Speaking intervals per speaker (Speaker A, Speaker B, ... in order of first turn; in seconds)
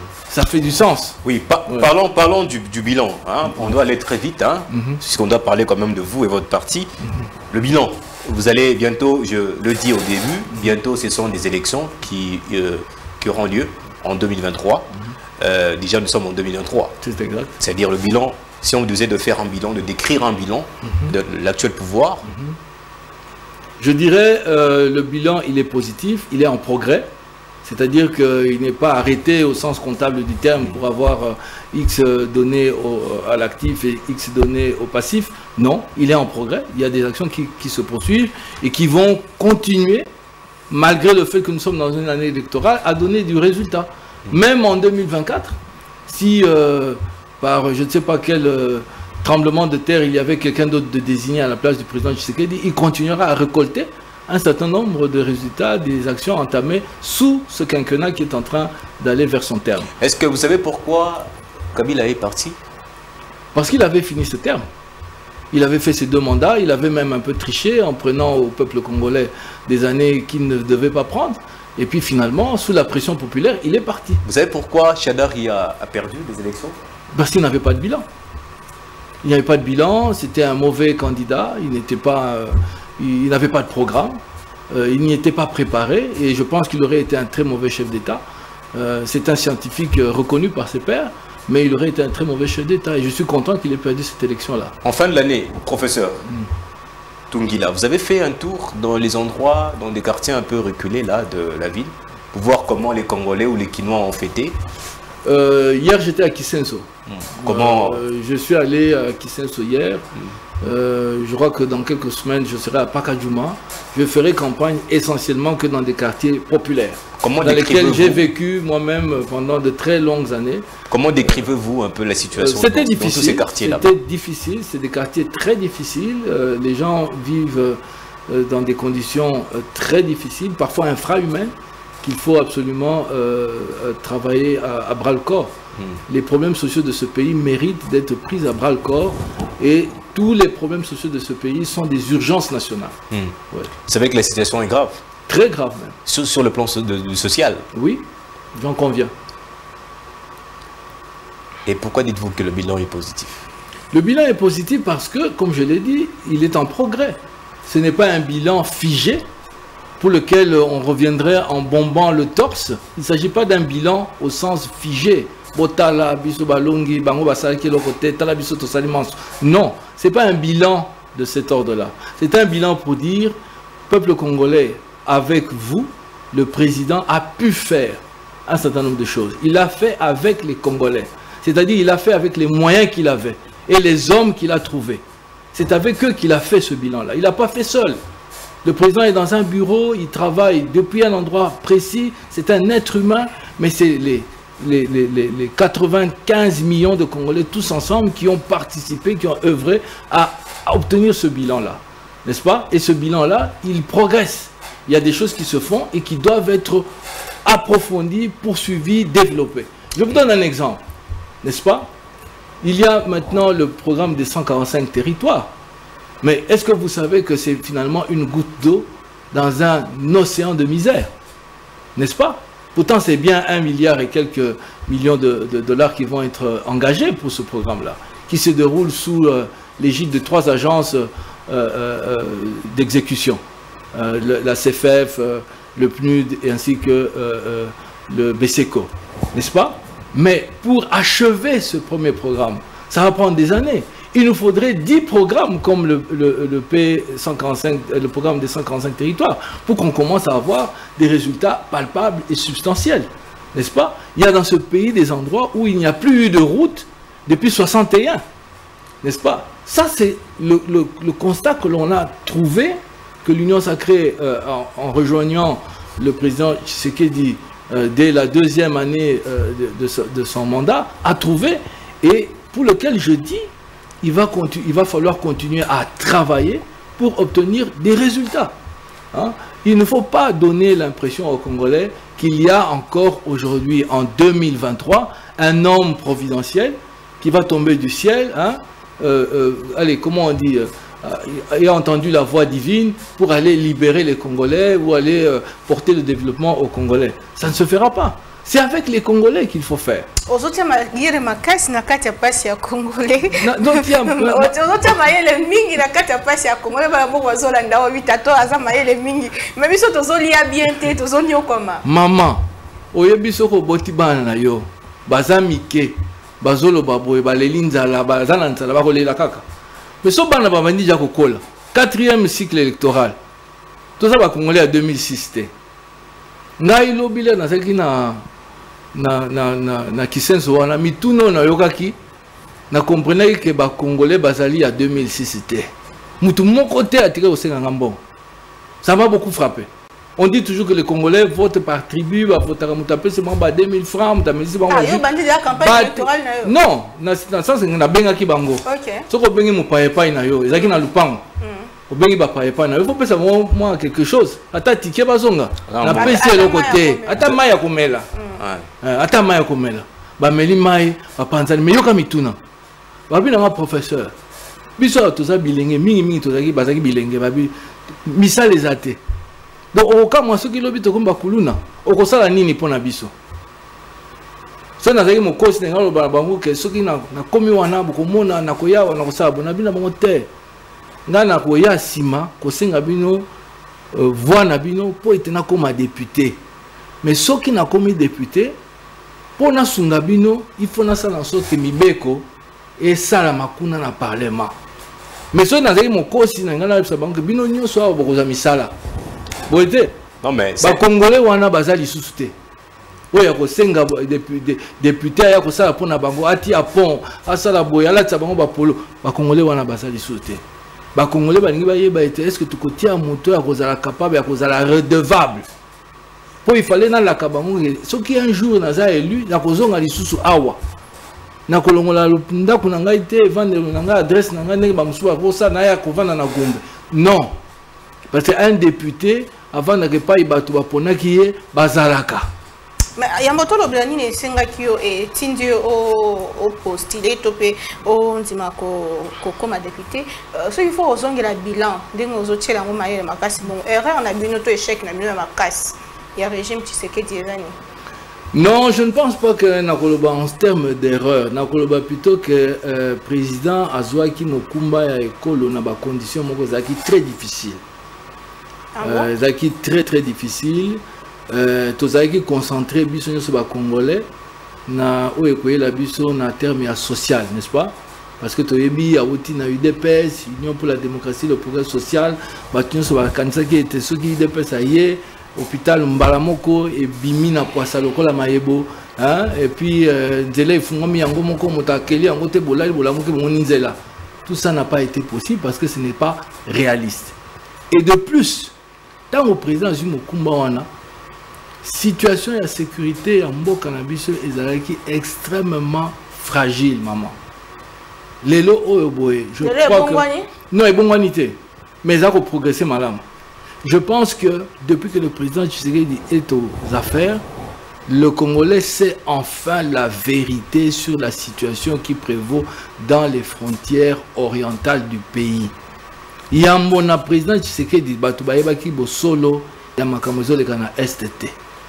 Speaker A: 0.3-1.9, 4.7-5.0, 17.0-17.5, 22.3-22.6, 23.8-27.1, 27.6-40.1, 40.7-59.9, 63.5-64.7, 65.5-74.2, 77.1-78.1, 79.2-88.2, 88.7-94.8, 105.2-110.1, 110.6-120.7, 122.4-135.6, 136.1-142.9, 145.3-146.0, 147.7-149.1, 153.9-159.3, 160.0-173.4, 173.9-185.0, 185.5-188.0, 188.6-206.9, 207.4-210.8, 211.4-211.9, 212.6-215.5, 216.2-221.1, 222.0-233.4, 233.9-258.2, 259.0-273.5, 274.0-278.6, 279.1-300.1, 303.4-304.9, 311.8-319.4, 320.0-323.2, 324.0-325.5, 326.6-328.2, 328.9-332.0, 332.7-338.0, 338.8-351.2, 351.9-358.1, 358.8-362.4, 363.1-364.1, 364.8-367.5, 368.0-369.0, 369.7-373.1, 374.8-380.3, 381.1-383.3, 383.9-386.4, 387.0-388.6, 389.4-394.5, 395.3-398.7, 399.5-399.9, 400.6-402.3, 403.1-410.4, 410.9-415.4, 416.4-420.6, 421.5-427.4, 428.1-432.3, 448.3-457.6, 458.8-464.1, 464.7-487.1, 487.7-488.5, 489.1-490.7, 491.6-497.2, 498.2-503.0, 503.6-507.2, 507.9-515.5, 516.3-521.4
Speaker B: 1.2-6.9, 7.5-17.0, 17.6-22.3, 60.0-62.6, 74.2-76.8, 94.8-96.2, 97.3-104.6, 107.1-108.0, 117.2-118.3, 120.9-123.9, 143.1-145.0, 146.1-147.7, 151.7-153.5, 355.7-356.2, 358.4-358.7, 400.2-400.8
Speaker C: 300.3-311.8, 344.7-346.5, 348.6-349.1, 351.4-351.7, 355.9-357.2, 358.1-358.4, 433.0-447.6, 458.8-459.1, 499.4-500.3